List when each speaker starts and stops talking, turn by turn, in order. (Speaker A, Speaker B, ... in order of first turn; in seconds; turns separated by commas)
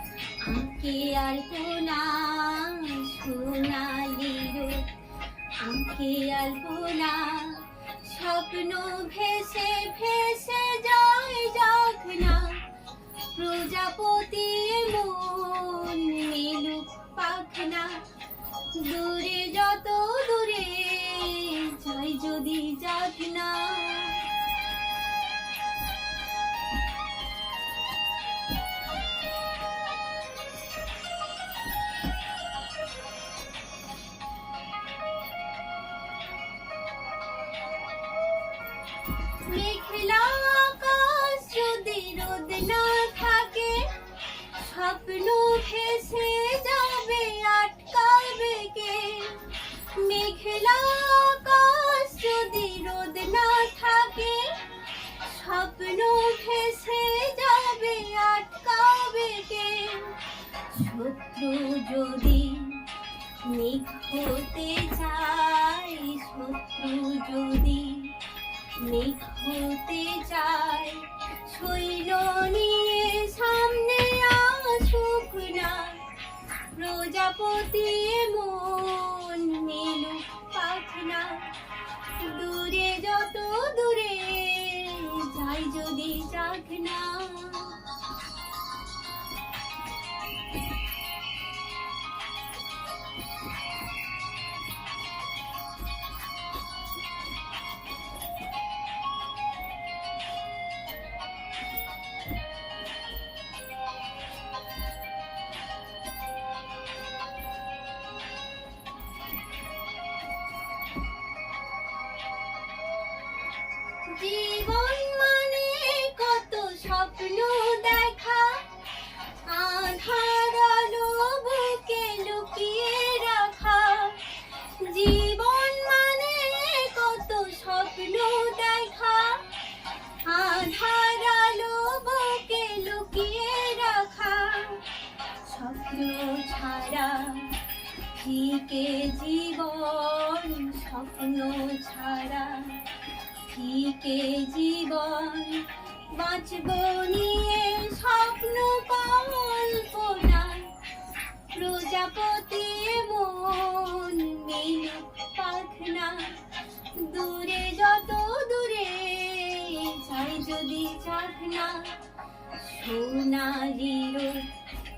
Speaker A: 0.4-5.0, Speaker A: 5.5-18.1, Speaker A: 18.6-24.4, Speaker A: 39.4-76.2, Speaker A: 76.7-88.0, Speaker A: 114.0-150.9, Speaker A: 151.5-164.6